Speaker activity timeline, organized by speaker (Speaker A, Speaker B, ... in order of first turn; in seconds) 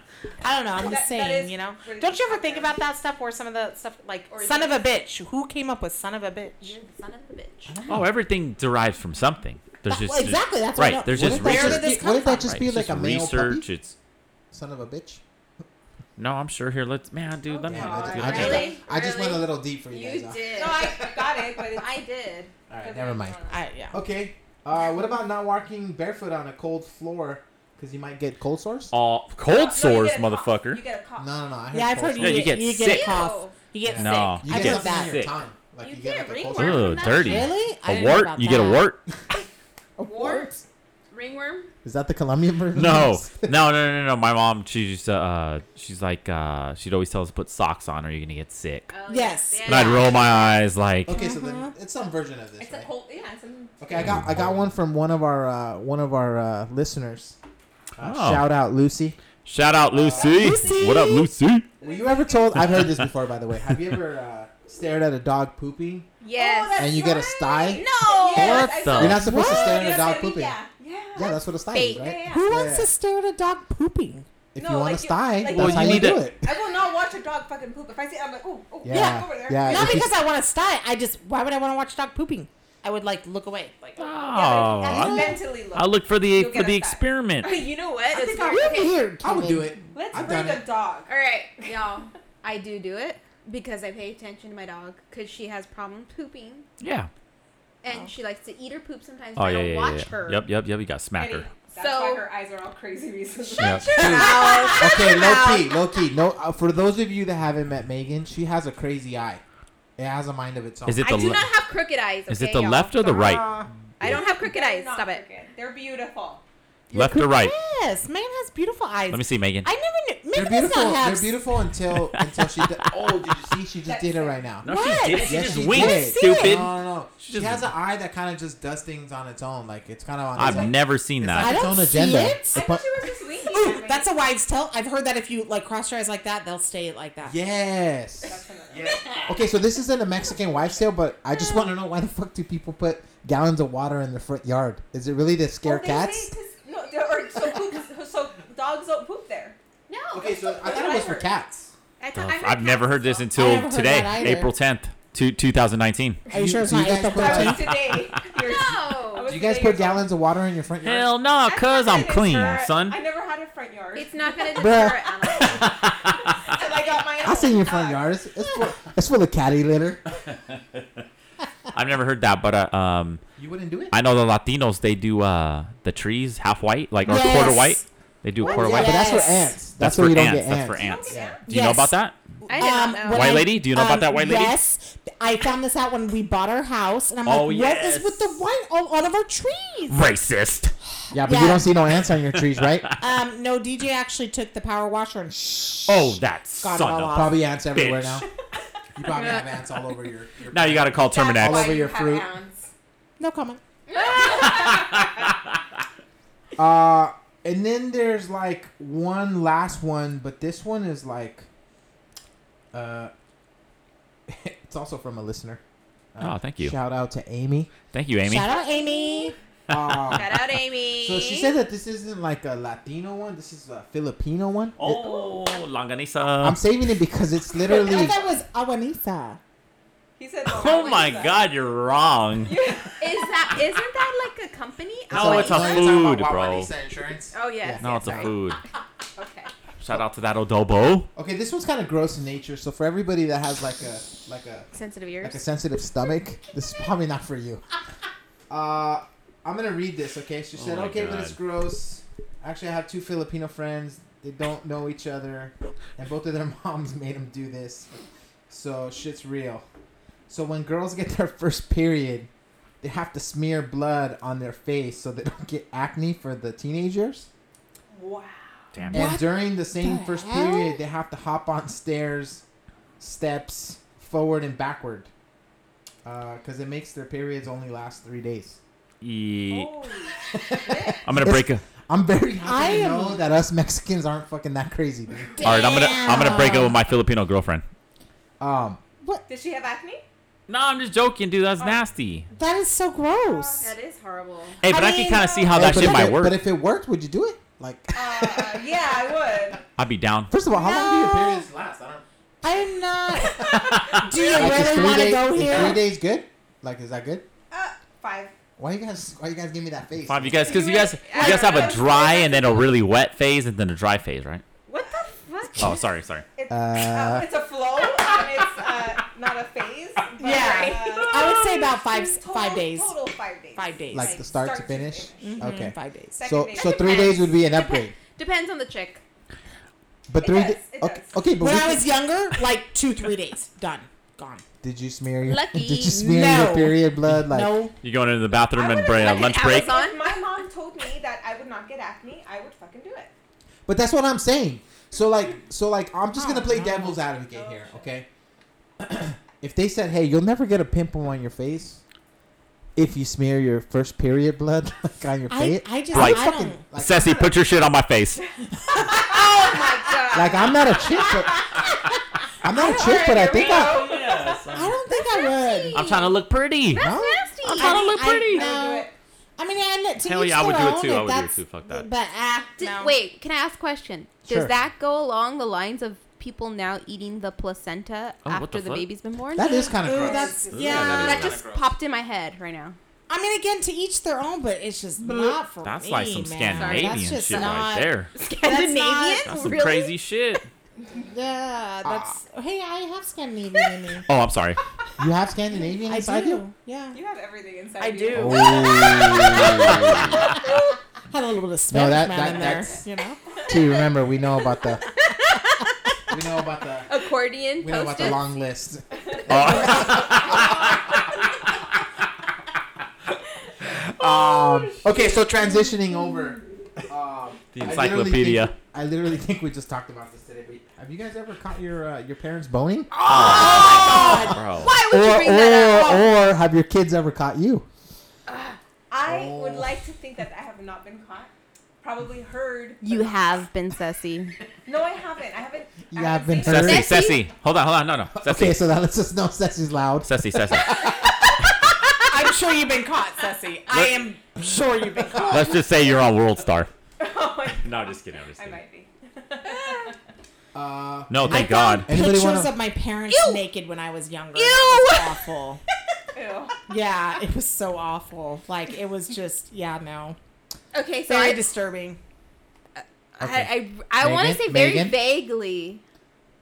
Speaker A: 0.4-6.8, 9.9-12.5, 23.5-24.0, 31.7-35.2, 37.1-38.9, 40.0-40.6, 49.1-50.1, 51.1-51.7, 60.2-61.3, 69.2-69.9, 72.3-74.3, 78.9-84.2, 84.8-85.4, 88.2-89.8, 113.0-113.7, 116.9-121.4, 124.7-126.6, 131.4-132.6, 133.4-137.4, 153.4-154.5, 156.3-157.7, 177.1-177.8, 178.4-179.6, 181.5-190.0, 191.1-191.7, 193.0-197.4, 203.2-203.6, 218.2-219.4, 227.7-229.4, 268.9-270.8, 282.4-283.2, 285.4-286.8, 292.3-293.7, 294.6-295.9, 300.5-301.4, 302.4-305.8, 320.2-322.9, 323.6-324.2, 325.2-326.2, 331.4-334.4, 335.9-337.8, 346.1-347.0, 355.3-356.6, 362.5-363.4, 364.5-365.9, 367.5-373.0, 379.6-381.3, 383.1-389.5, 391.0-394.1, 395.9-397.0, 397.8-400.4, 401.1-403.2, 423.1-424.4, 442.0-445.6, 451.3-455.6, 456.7-460.2, 461.1-462.0
Speaker B: 0.8-2.8, 17.6-18.8, 20.5-22.1, 22.8-23.6, 29.4-31.3, 52.6-54.0, 61.8-62.8, 66.3-72.4, 74.6-80.1, 84.3-87.7, 89.9-91.8, 101.2-104.8, 114.0-116.4, 123.9-124.5, 132.5-134.1, 138.2-139.3, 145.6-149.6, 150.3-151.4, 152.2-153.2, 157.1-160.1, 161.4-168.1, 180.8-181.4, 201.1-202.7, 204.0-205.1, 224.8-225.4, 230.2-231.5, 232.4-233.5, 267.9-268.8, 279.5-281.1, 289.3-290.0, 293.2-293.6, 297.9-299.6, 304.2-304.8, 307.5-308.4, 310.5-312.7, 314.7-315.8, 316.4-325.5, 326.1-327.3, 330.2-331.2, 338.5-343.1, 347.3-347.9, 358.9-361.4, 362.9-364.5, 368.3-368.9, 379.8-381.1, 396.9-400.3, 428.9-433.2, 434.6-436.9, 447.0-449.9, 456.1-456.6
Speaker C: 4.3-4.9, 6.6-7.8, 17.5-22.5, 32.8-33.6, 35.8-37.5, 40.0-40.6, 41.1-41.7, 48.9-50.5, 66.2-68.9, 71.7-72.3, 87.4-89.0, 91.1-96.7, 97.8-100.5, 101.7-102.3, 103.5-105.9, 111.0-113.0, 114.0-115.2, 141.4-141.7, 149.9-150.5, 152.0-152.9, 158.3-159.3, 162.4-162.7, 163.9-165.8, 182.5-183.5, 199.2-199.4, 203.9-204.8, 218.7-219.3, 220.1-221.6, 230.7-231.2, 233.0-236.0, 237.3-238.4, 239.2-239.5, 244.7-245.4, 285.9-286.3, 293.6-294.6, 310.7-312.1, 326.6-329.0, 335.2-336.0, 338.9-340.3, 358.8-361.1, 364.9-366.2, 366.7-367.9, 372.6-379.7, 380.8-382.8, 386.5-389.9, 405.1-405.7, 406.9-408.3, 414.5-414.8, 423.1-426.1, 428.3-428.6, 432.8-434.4, 436.5-437.3, 449.5-449.9, 453.1-453.4, 454.4-455.2, 460.7-461.4, 462.8-465.8
Speaker D: 7.7-8.1, 11.1-13.7, 14.5-15.2, 17.7-21.4, 22.7-23.4, 23.9-28.9, 31.2-32.6, 33.9-37.3, 41.8-43.6, 51.0-52.9, 53.8-57.4, 58.0-59.2, 59.9-60.7, 61.8-66.1, 66.8-67.8, 69.0-70.6, 71.2-72.9, 74.5-76.5, 78.8-80.2, 89.2-90.7, 103.9-109.4, 110.0-111.3, 120.3-132.8, 137.2-146.3, 150.1-151.7, 156.3-157.9, 159.2-161.1, 164.5-165.5, 167.2-170.0, 173.4-174.0, 178.4-181.4, 191.1-192.9, 197.1-198.3, 199.0-202.3, 206.6-211.5, 212.7-213.1, 214.3-215.6, 216.1-217.7, 219.7-224.8, 226.4-228.2, 235.1-238.3, 241.2-244.7, 245.2-247.6, 248.5-257.9, 258.5-259.6, 260.3-262.3, 262.8-267.3, 268.9-272.4, 273.0-275.1, 276.1-278.6, 280.2-285.4, 288.4-288.8, 295.5-299.6, 300.3-302.0, 303.4-307.2, 308.6-310.6, 316.5-317.3, 323.9-328.0, 330.1-331.9, 334.6-337.6, 343.7-348.1, 348.8-351.8, 352.8-357.4, 360.1-361.6, 362.4-363.9, 366.8-367.2, 374.3-374.6, 379.3-381.7, 391.8-392.2, 395.0-396.4, 398.1-400.2, 401.7-402.8, 403.5-404.9, 406.1-407.1, 407.6-410.7, 413.6-427.7, 429.0-429.8, 435.9-437.1, 438.1-440.9, 450.5-452.5, 463.2-465.0
Speaker E: 7.9-13.9, 16.2-18.7, 28.9-30.8, 32.2-33.3, 33.9-35.4, 36.5-39.0, 42.7-48.9, 49.6-51.1, 54.0-54.6, 58.0-58.5, 59.5-61.7, 62.6-63.1, 68.3-69.3, 75.5-76.3, 84.0-87.5, 96.8-97.1, 99.4-101.5, 103.6-104.0, 110.9-111.5, 112.3-113.6, 116.9-117.5, 119.1-119.7, 122.1-123.0, 124.6-127.7, 130.3-131.7, 152.2-156.2, 160.8-163.0, 165.6-166.2, 170.5-170.8, 171.7-173.2, 173.9-182.2, 183.0-184.6, 187.3-188.4, 189.9-190.7, 192.3-192.9, 195.9-198.3, 200.5-201.8, 204.2-205.3, 216.2-216.8, 217.9-218.5, 219.7-220.2, 224.8-226.7, 230.5-232.6, 235.1-236.7, 237.8-238.6, 239.8-241.1, 250.6-251.4, 268.7-269.1, 279.0-279.8, 281.1-281.6, 285.4-287.6, 290.5-292.3, 294.6-296.4, 299.8-300.3, 303.6-304.0, 310.1-314.4, 315.6-316.3, 337.8-339.7, 355.9-358.2, 363.1-364.8, 365.7-366.9, 367.4-368.5, 370.0-371.9, 378.2-378.9, 380.5-381.4, 385.1-388.1, 389.2-390.5, 394.1-394.6, 399.3-400.2, 409.3-410.9, 417.5-418.5, 423.0-424.7, 436.4-438.6, 440.0-440.9, 443.7-444.0, 445.2-446.7, 447.6-448.6, 451.1-451.9